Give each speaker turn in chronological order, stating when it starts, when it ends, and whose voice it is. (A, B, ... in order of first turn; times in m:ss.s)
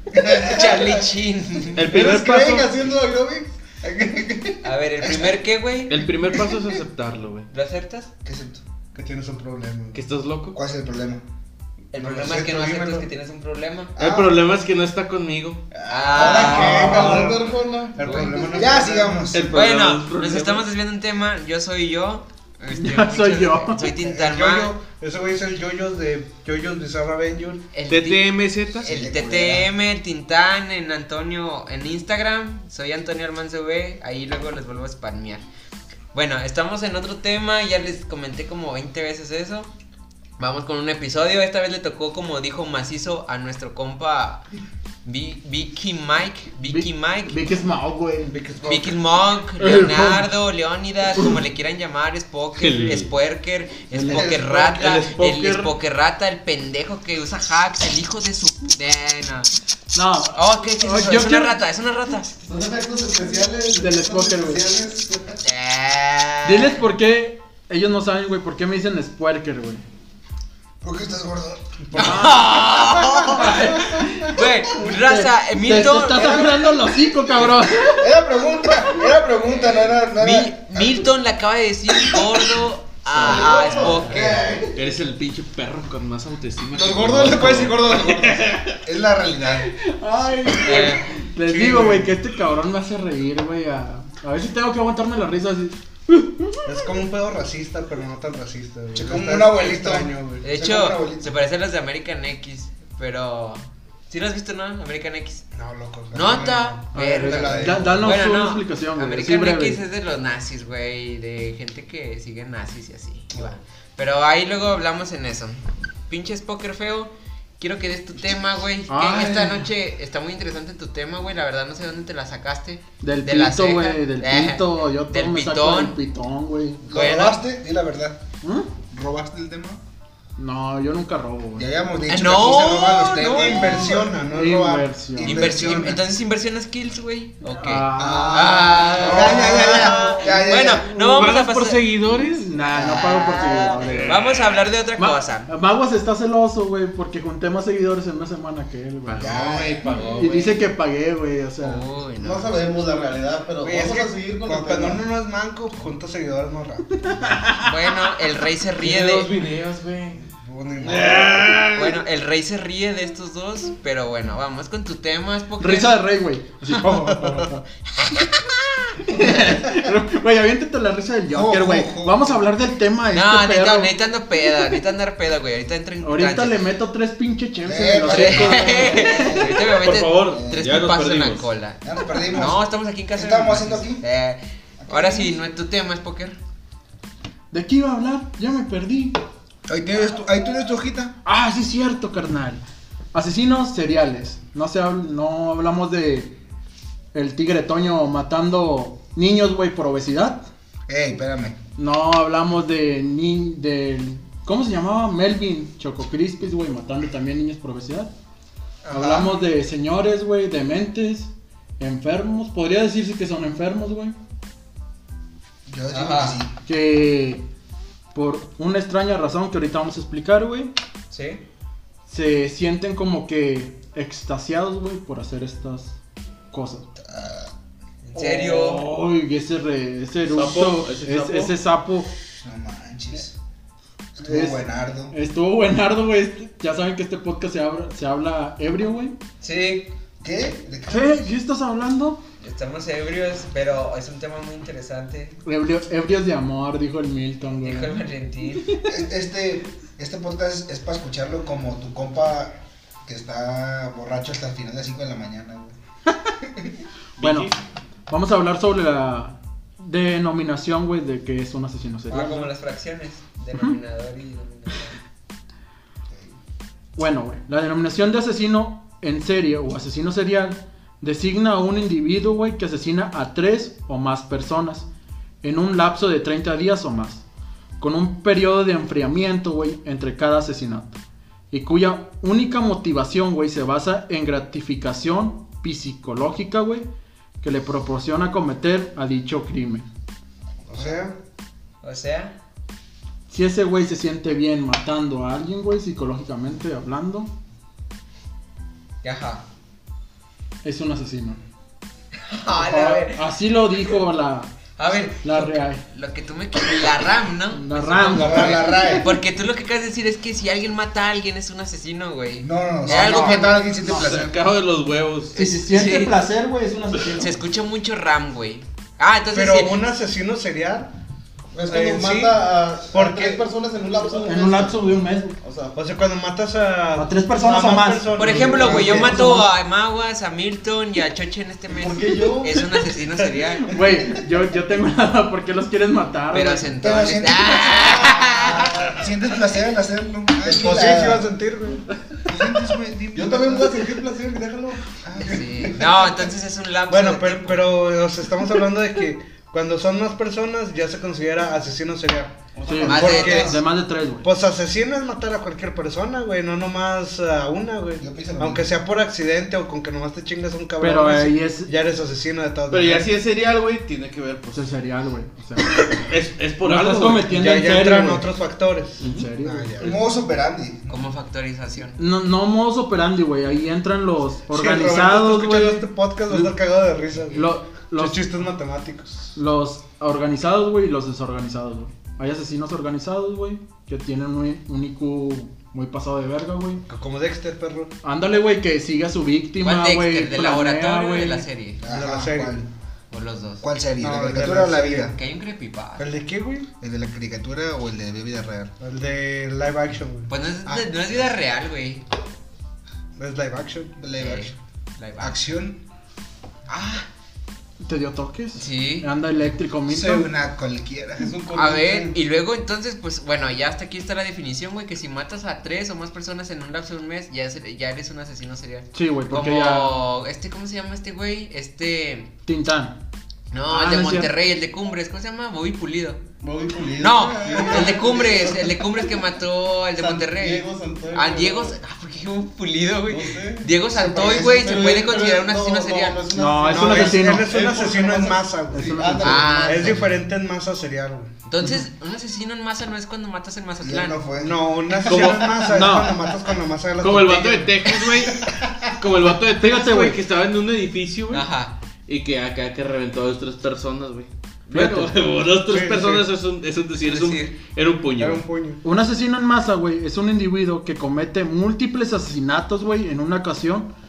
0:00.2-0:01.8 A
0:00.2-0:00.6 B
0:01.8-0:02.7 C
0:01.8-0:04.6 B
0:01.9-0:02.2 D
0:04.6-0:06.0 A
0:05.0-0:05.3 D
0:05.9-0:07.5 C
0:07.5-0:08.1 A
0:08.2-0:08.6 D
0:09.0-0:10.0 E
0:09.9-0:10.6 C
0:10.5-0:11.2 D
0:11.9-0:13.9 A
0:11.9-0:13.1 E
0:14.0-0:15.6 C
0:14.0-0:14.3 D
0:15.7-0:18.9 B
0:15.9-0:17.3 A
0:16.1-0:19.3 E
0:16.4-0:17.3 D
0:18.0-0:18.3 A
0:18.1-0:19.6 D
0:19.3-0:20.6 C
0:19.5-0:24.7 A
0:22.7-0:23.8 F
0:24.0-0:27.6 E
0:27.7-0:35.4 A
0:27.9-0:28.9 C
0:28.8-0:29.7 D
0:36.1-0:39.7 A
0:40.4-0:44.4 A
0:45.0-0:47.4 A
0:46.6-0:48.4 F
0:48.3-0:49.0 D
0:48.6-0:59.5 A
0:49.6-0:50.3 F
0:52.6-0:53.1 C
0:53.9-0:55.7 C
0:59.9-1:01.6 F
1:00.3-1:02.3 A
1:02.4-1:05.4 B
1:03.8-1:04.6 F
1:05.4-1:06.8 A
1:06.4-1:09.8 F
1:10.8-1:13.8 D
1:11.9-1:16.7 A
1:12.0-1:12.4 F
1:13.5-1:18.1 F
1:17.8-1:21.1 D
1:19.6-1:24.4 A
1:23.1-1:24.8 D
1:23.2-1:23.5 C
1:24.8-1:28.8 C
1:26.7-1:29.7 D
1:29.8-1:36.7 F
1:30.6-1:31.0 A
1:31.4-1:32.1 E
1:36.7-1:40.4 E
1:38.9-1:41.3 D
1:40.4-1:45.4 A
1:45.6-1:48.2 E
1:46.1-2:06.0 A
1:46.9-1:49.8 F
1:58.9-1:59.7 F
2:03.0-2:06.8 F
2:06.9-2:08.2 D
2:06.9-2:07.4 A
2:08.4-2:08.7 F
2:08.9-2:09.8 D
2:10.4-2:11.7 F
2:11.6-2:14.2 D
2:12.1-2:14.0 A
2:13.2-2:15.4 E
2:14.3-2:15.4 F
2:15.2-2:16.0 D
2:15.2-2:21.8 A
2:17.5-2:18.8 F
2:18.0-2:20.9 D
2:18.8-2:20.4 C
2:20.2-2:21.5 F
2:21.0-2:22.5 C
2:22.1-2:24.2 F
2:22.6-2:25.5 A
2:23.4-2:24.4 C
2:25.0-2:29.3 F
2:29.1-2:30.6 A
2:29.2-2:29.9 D
2:29.8-2:30.3 C
2:30.2-2:31.8 F
2:31.6-2:32.6 A
2:32.2-2:35.0 B
2:33.6-2:37.2 E
2:37.1-2:37.6 F
2:37.6-2:39.3 A
2:38.8-2:40.3 C
2:40.4-2:41.5 E
2:40.8-2:42.0 C
2:41.7-2:46.0 A
2:45.6-2:47.6 F
2:46.9-2:47.3 E
2:48.1-2:48.9 A
2:49.0-2:53.9 F
2:51.3-2:52.4 D
2:53.1-2:56.6 A
2:56.0-2:59.4 F
2:57.6-2:59.6 D
2:58.1-3:06.4 A
2:59.8-3:01.5 C
3:00.3-3:00.8 D
3:01.8-3:02.6 D
3:03.1-3:04.0 D
3:04.8-3:05.4 D
3:07.5-3:09.2 F
3:09.7-3:11.2 D
3:11.2-3:12.6 F
3:13.1-3:16.4 F
3:17.1-3:20.5 F
3:20.9-3:21.6 D
3:21.8-3:28.1 F
3:28.8-3:29.4 D
3:28.9-3:34.2 F
3:35.7-3:36.6 D
3:35.9-3:36.4 A
3:36.7-3:37.4 F
3:38.1-3:40.7 F
3:41.1-3:41.4 A
3:42.1-3:46.0 F
3:46.5-3:46.9 F
3:47.0-3:47.5 D
3:48.0-3:48.9 A
3:48.2-3:52.1 F
3:50.3-3:51.6 C
3:52.4-3:53.4 D
3:54.2-3:55.1 D
3:54.2-3:59.2 F
3:59.4-3:59.9 A
4:00.2-4:01.3 D
4:00.9-4:02.2 F
4:02.4-4:05.4 A
4:05.4-4:08.0 F
4:07.6-4:08.8 A
4:08.8-4:12.5 D
4:13.1-4:15.8 D
4:17.2-4:17.6 C
4:17.2-4:17.5 F
4:18.1-4:22.5 F
4:22.1-4:25.0 A
4:27.0-4:34.9 F
4:35.4-4:37.2 F
4:37.8-4:41.0 F
4:41.5-4:46.9 F
4:47.4-4:49.9 F
4:50.7-4:51.2 E
4:51.8-4:52.4 A
4:53.3-4:57.3 F
4:59.0-4:59.4 A
5:00.6-5:01.4 F
5:02.3-5:03.2 A
5:02.6-5:04.5 F
5:04.8-5:13.7 A
5:05.2-5:05.8 F
5:07.5-5:08.8 F
5:08.2-5:09.1 D
5:12.4-5:14.4 D
5:13.8-5:15.3 C
5:15.4-5:16.2 A
5:15.4-5:17.4 F
5:17.2-5:19.8 A
5:19.3-5:20.9 E
5:21.5-5:25.8 B
5:21.7-5:23.4 E
5:24.1-5:25.4 F
5:25.8-5:29.3 E
5:27.0-5:29.5 F
5:28.1-5:33.7 A
5:31.7-5:32.7 B
5:33.7-5:36.7 F
5:36.3-5:38.9 A
5:36.8-5:41.3 D
5:40.4-5:41.8 E
5:42.3-5:43.7 D
5:43.1-5:45.8 B
5:45.0-5:46.1 D
5:45.2-5:47.7 A
5:46.9-5:52.4 E
5:52.5-5:53.6 B
5:52.7-5:54.3 F
5:52.9-5:53.6 A
5:52.9-5:53.6 E
5:54.2-6:03.1 E
5:58.0-5:58.7 D
6:00.8-6:01.7 F
6:02.7-6:04.7 C
6:04.5-6:05.8 F
6:05.8-6:07.6 C
6:06.6-6:08.3 F
6:07.3-6:10.0 E
6:09.0-6:09.3 C
6:09.0-6:10.0 F
6:09.8-6:11.0 D
6:10.9-6:12.0 A
6:12.0-6:16.5 F
6:14.5-6:19.4 E
6:17.3-6:18.2 F
6:19.4-6:26.8 F
6:26.9-6:27.9 E
6:28.0-6:31.4 F
6:29.6-6:31.8 A
6:31.8-6:32.7 D
6:31.8-6:32.6 E
6:33.1-6:33.6 A
6:33.6-6:35.2 D
6:34.0-6:35.1 E
6:35.1-6:36.1 A
6:36.0-6:36.7 E
6:36.8-6:38.7 D
6:38.8-6:40.3 E
6:40.3-6:42.0 A
6:40.7-6:41.3 D
6:43.2-6:44.0 E
6:44.0-6:44.6 D
6:44.2-6:45.4 A
6:45.2-6:45.8 D
6:47.8-6:50.3 F
6:48.6-6:49.1 A
6:49.9-6:51.3 D
6:51.2-6:52.2 B
6:51.5-7:02.3 A
6:58.9-7:00.0 F
7:02.5-7:03.0 F
7:03.5-7:06.2 A
7:03.7-7:04.3 F
7:06.4-7:09.1 B
7:07.0-7:16.2 A
7:07.2-7:08.0 D
7:09.9-7:11.8 B
7:13.1-7:13.7 B
7:13.9-7:14.8 D
7:14.3-7:20.0 B
7:16.4-7:17.5 F
7:16.7-7:21.3 E
7:18.7-7:19.7 F
7:19.2-7:20.1 A
7:21.5-7:24.2 A
7:23.8-7:24.6 D
7:24.4-7:28.0 E
7:25.1-7:26.0 C
7:25.1-7:26.1 F
7:27.0-7:28.4 C
7:29.0-7:31.5 C
7:29.5-7:30.2 F
7:31.3-7:31.7 A
7:32.1-7:38.4 C
7:34.7-7:35.1 F
7:35.7-7:36.3 E
7:37.0-7:37.6 A
7:38.2-7:38.8 E
7:38.8-7:43.9 F